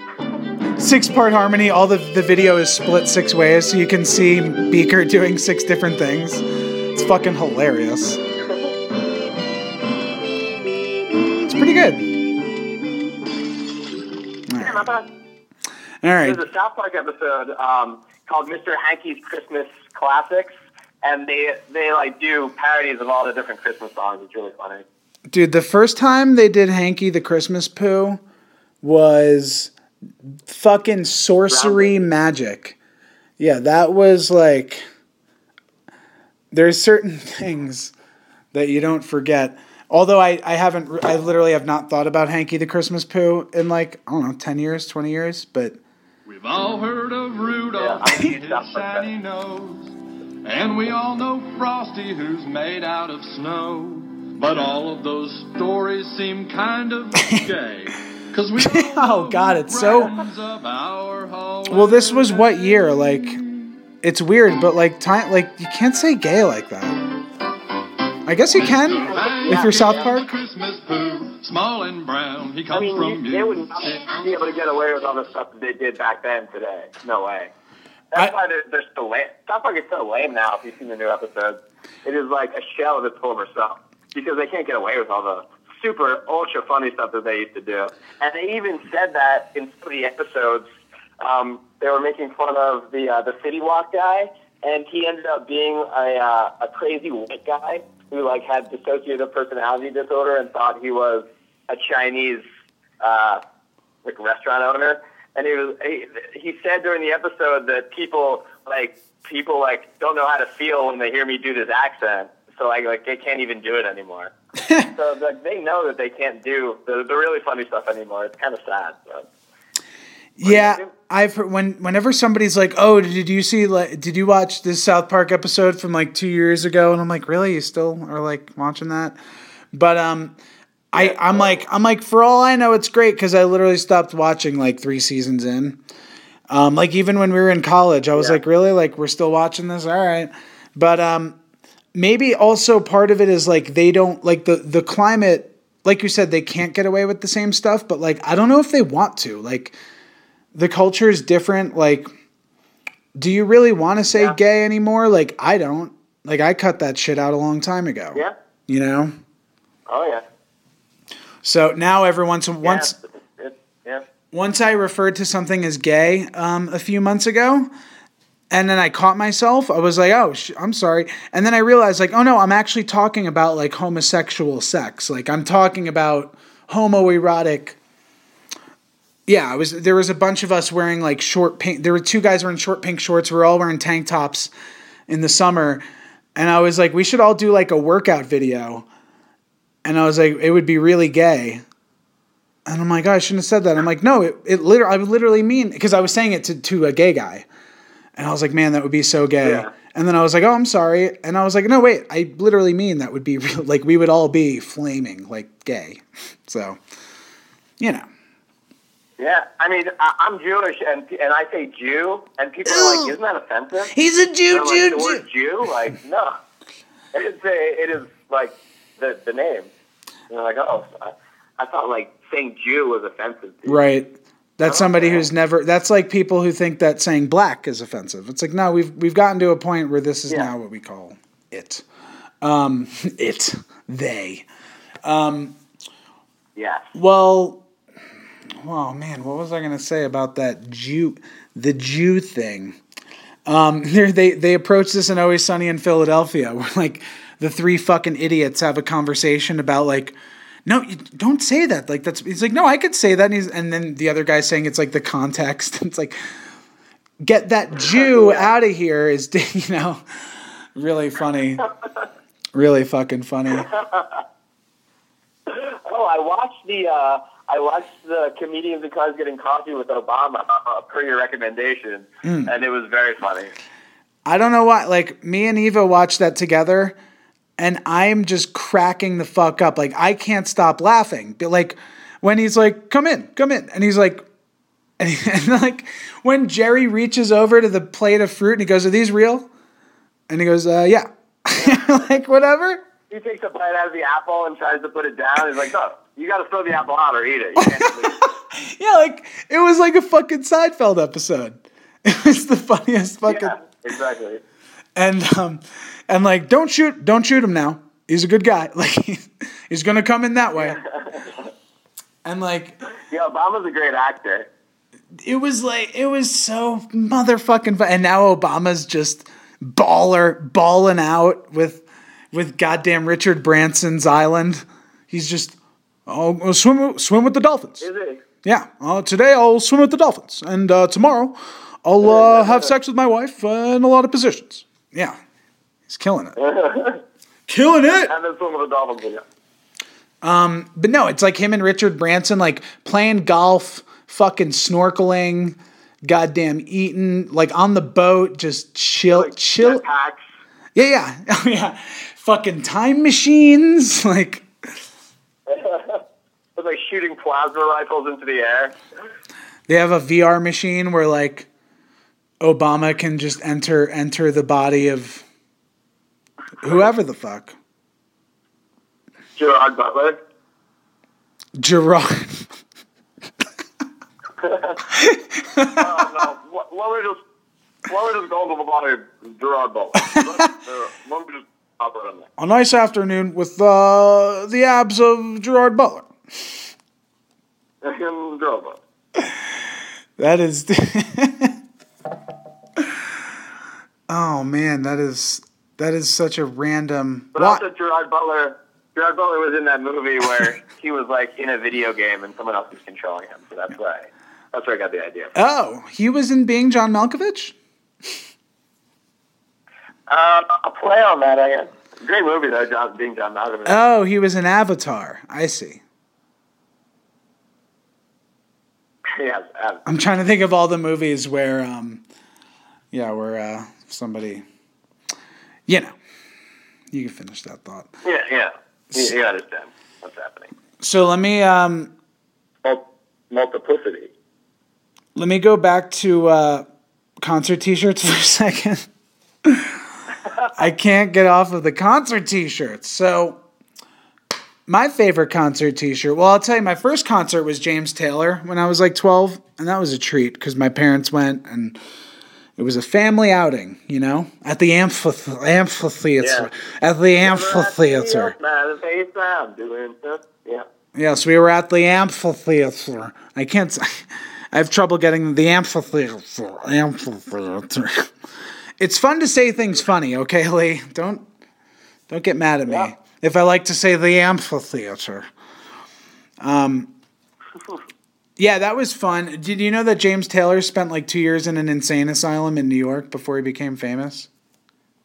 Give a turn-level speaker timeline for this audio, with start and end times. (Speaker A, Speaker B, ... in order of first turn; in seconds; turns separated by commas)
Speaker A: 0.8-8.2, Speaker A: 11.3-12.1, Speaker A: 14.5-14.9, Speaker B: 14.6-15.1, Speaker A: 16.0-16.4, Speaker B: 16.2-24.8, Speaker A: 25.3-28.2, Speaker A: 28.8-29.7, Speaker A: 30.2-32.8, Speaker B: 31.5-32.1, Speaker A: 33.4-34.8, Speaker A: 36.5-37.9, Speaker A: 38.5-45.8, Speaker C: 46.3-49.9, Speaker B: 47.7-49.1, Speaker C: 50.4-62.8, Speaker A: 58.6-60.1, Speaker A: 61.7-67.0, Speaker A: 68.2-70.3, Speaker C: 68.5-74.0, Speaker B: 69.1-70.0, Speaker B: 72.7-77.5, Speaker B: 78.1-90.7, Speaker B: 91.2-102.4, Speaker B: 103.0-103.4, Speaker B: 104.0-114.3, Speaker B: 114.9-119.3, Speaker A: 120.4-129.2, Speaker B: 120.4-120.9, Speaker A: 129.7-130.4, Speaker A: 130.9-135.8, Speaker B: 130.9-131.6, Speaker A: 136.5-141.4, Speaker A: 141.9-149.7, Speaker A: 150.5-152.1, Speaker A: 153.2-159.1, Speaker B: 159.9-160.2, Speaker A: 161.4-162.9, Speaker B: 162.6-164.0, Speaker A: 164.3-167.7, Speaker A: 168.5-177.8, Speaker A: 179.3-184.5, Speaker A: 185.1-185.8, Speaker A: 186.3-188.8, Speaker A: 189.8-191.6, Speaker A: 192.7-197.5, Speaker A: 198.2-206.8, Speaker B: 199.4-199.7, Speaker A: 207.8-208.1, Speaker B: 209.2-213.9, Speaker A: 212.6-213.1, Speaker A: 213.9-215.2, Speaker B: 214.5-216.3, Speaker B: 217.1-219.7, Speaker B: 220.3-223.8, Speaker A: 223.7-231.8, Speaker B: 224.6-225.2, Speaker A: 232.4-234.4, Speaker A: 235.0-235.6, Speaker B: 236.6-236.9, Speaker A: 236.9-237.6, Speaker A: 238.6-242.8, Speaker A: 243.4-256.2, Speaker A: 257.2-260.0, Speaker B: 257.9-258.5, Speaker A: 260.7-261.6, Speaker A: 262.5-263.7, Speaker B: 263.7-264.2, Speaker B: 265.5-273.5, Speaker A: 272.2-272.5, Speaker A: 274.2-276.9, Speaker A: 277.6-284.2, Speaker A: 285.0-289.5, Speaker A: 290.3-292.8, Speaker B: 291.6-292.0, Speaker B: 293.1-298.2, Speaker A: 297.6-303.6, Speaker B: 303.3-304.4, Speaker A: 304.9-310.8, Speaker B: 310.6-311.5, Speaker A: 312.2-312.8, Speaker B: 313.1-314.5, Speaker A: 315.2-327.8, Speaker B: 327.8-328.2, Speaker A: 328.4-335.2, Speaker B: 332.0-332.6, Speaker A: 335.9-336.4, Speaker B: 336.4-337.0, Speaker A: 337.5-338.1, Speaker B: 337.9-339.2, Speaker A: 340.2-349.8, Speaker B: 349.1-350.3, Speaker A: 350.7-354.4, Speaker B: 355.5-356.0, Speaker B: 356.6-358.7, Speaker A: 359.7-361.5, Speaker A: 362.4-365.2, Speaker A: 366.6-367.6, Speaker B: 369.4-370.2, Speaker A: 371.6-372.4, Speaker B: 374.4-374.8, Speaker A: 374.9-375.9, Speaker B: 375.7-377.2, Speaker B: 377.9-382.3, Speaker A: 382.4-386.1, Speaker B: 387.8-388.8, Speaker A: 390.2-391.5, Speaker A: 394.1-397.6, Speaker B: 397.3-405.3, Speaker A: 405.3-407.5, Speaker B: 410.1-413.8, Speaker A: 413.6-415.8, Speaker B: 419.1-419.9, Speaker A: 419.9-422.0, Speaker A: 422.9-424.4, Speaker A: 425.7-425.9, Speaker A: 426.9-427.9, Speaker B: 428.0-430.5, Speaker A: 430.8-431.9, Speaker B: 432.6-434.1, Speaker A: 435.1-436.6, Speaker A: 437.2-438.9, Speaker A: 439.4-439.8, Speaker B: 440.2-440.5, Speaker A: 440.6-443.4, Speaker A: 444.7-451.8, Speaker A: 452.6-458.3, Speaker B: 456.2-456.5, Speaker B: 457.2-460.6, Speaker A: 460.9-468.1, Speaker A: 468.8-471.2, Speaker A: 472.1-475.3, Speaker B: 472.6-472.9, Speaker A: 476.4-476.9, Speaker A: 478.4-484.3